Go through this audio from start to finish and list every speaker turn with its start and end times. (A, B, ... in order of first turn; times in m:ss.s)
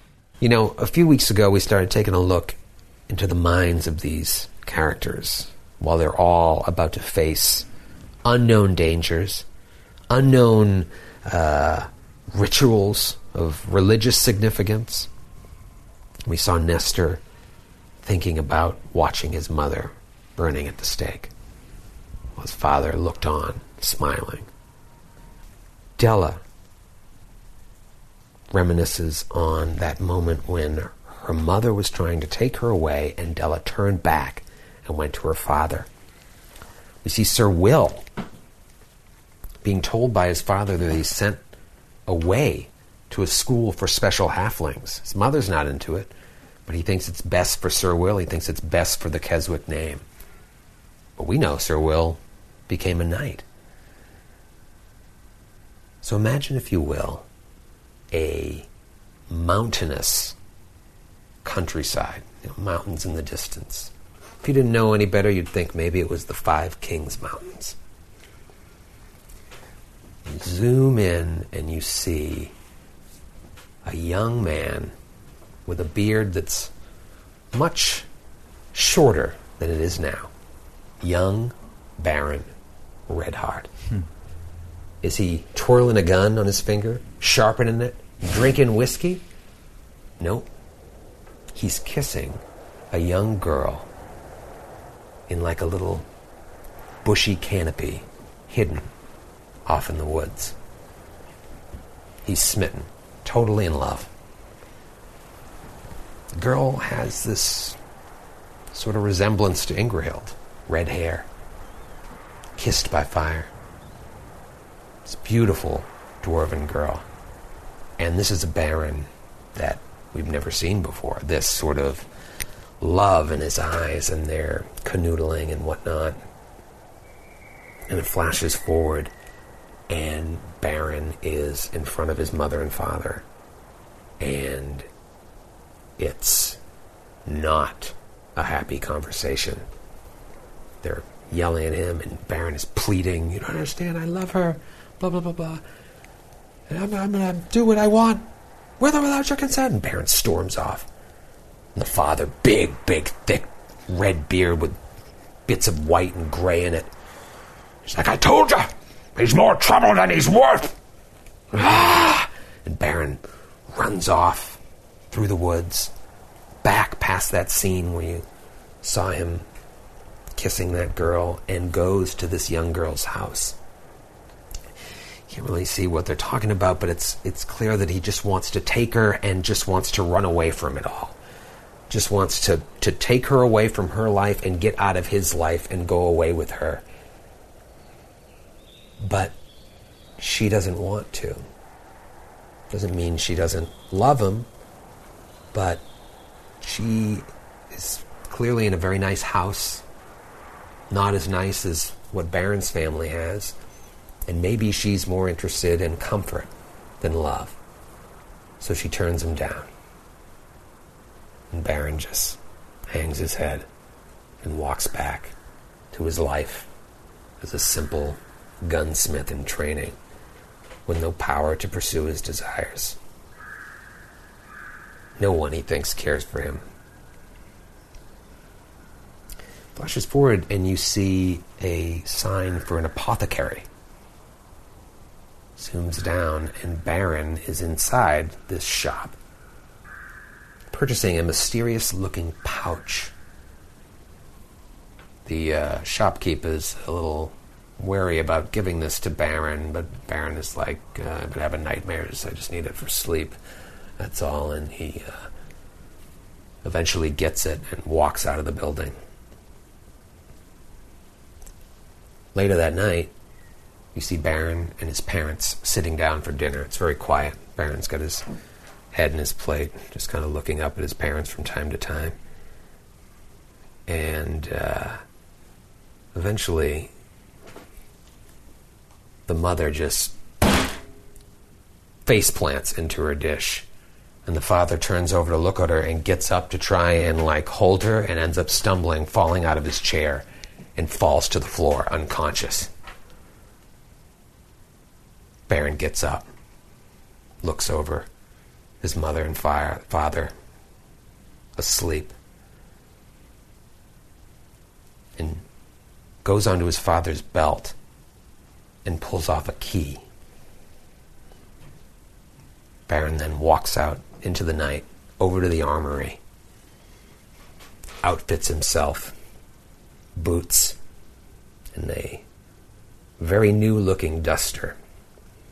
0:00.4-0:02.6 A
0:03.1-0:07.7 A
0:08.2-0:09.4 A
0:10.1-0:15.1 A
0:16.2-0:17.2 A
0:18.0-0:21.3 A
0:22.4-0:24.5 A
0:26.0-0:26.4 A
0:28.5-0:35.9 A
0:37.0-0:38.0 A
0:39.6-0:41.4 A
0:42.1-0:46.1 A
0:46.7-0:50.0 A
0:51.2-0:53.4 A
0:56.0-0:57.3 A
0:58.1-0:58.7 A
0:59.3-1:00.4 A
1:01.4-1:07.8 A
1:10.3-1:12.5 A
1:13.8-1:14.9 A
1:15.7-1:16.7 A
1:17.5-1:18.1 A
1:18.7-1:20.3 A
1:21.0-1:22.5 A
1:23.1-1:23.7 A
1:25.0-1:29.2 A
1:30.2-1:30.5 A
1:31.6-1:33.9 A
1:35.3-1:36.1 A
1:37.0-1:38.9 A
1:39.7-1:40.6 A
1:42.2-1:44.1 A
1:46.4-1:47.8 A
1:48.7-1:51.3 A
1:52.6-1:53.5 A
1:55.1-1:57.0 A
1:58.0-2:02.1 A
2:02.8-2:06.2 A
2:07.9-2:09.1 A
2:09.9-2:13.2 A
2:14.2-2:14.9 A
2:16.0-2:16.6 A
2:17.3-2:19.6 A
2:20.8-2:25.6 A
2:26.7-2:28.3 A
2:28.8-2:30.9 A
2:31.8-2:34.8 A
2:35.5-2:36.9 A
2:37.8-2:40.8 A
2:41.5-2:44.6 A
2:45.1-2:45.9 A
2:46.6-2:48.2 A
2:48.8-2:49.4 A
2:50.4-2:53.6 A
2:55.3-3:01.2 A
3:01.9-3:06.8 A
3:09.0-3:09.4 A
3:10.2-3:11.4 A
3:12.7-3:14.5 A
3:15.5-3:15.8 A
3:16.6-3:19.8 A
3:20.9-3:23.6 A
3:24.3-3:26.5 A
3:27.0-3:27.6 A
3:28.6-3:29.7 A
3:31.5-3:32.4 A
3:32.9-3:33.7 A
3:34.4-3:35.3 A
3:35.9-3:36.7 A
3:37.4-3:40.0 A
3:40.9-3:43.0 A
3:45.2-3:46.6 A
3:49.8-3:53.7 A
3:55.6-3:59.2 A
4:00.7-4:03.1 A
4:05.3-4:13.4 A
4:14.0-4:15.2 A
4:16.6-4:18.9 A
4:22.4-4:23.1 A
4:24.0-4:28.2 A
4:28.9-4:32.2 A
4:33.9-4:35.0 A
4:36.1-4:36.9 A
4:39.3-4:40.2 A
4:42.1-4:43.7 A
4:44.3-4:52.7 A
4:55.5-4:56.3 A
4:57.4-4:58.1 A
4:58.8-5:00.3 A
5:01.6-5:02.2 A
5:05.2-5:05.4 A
5:06.2-5:07.8 A
5:08.8-5:10.0 A
5:12.9-5:16.2 A
5:18.0-5:19.1 A
5:20.2-5:20.8 A
5:21.8-5:22.2 A
5:23.2-5:24.8 A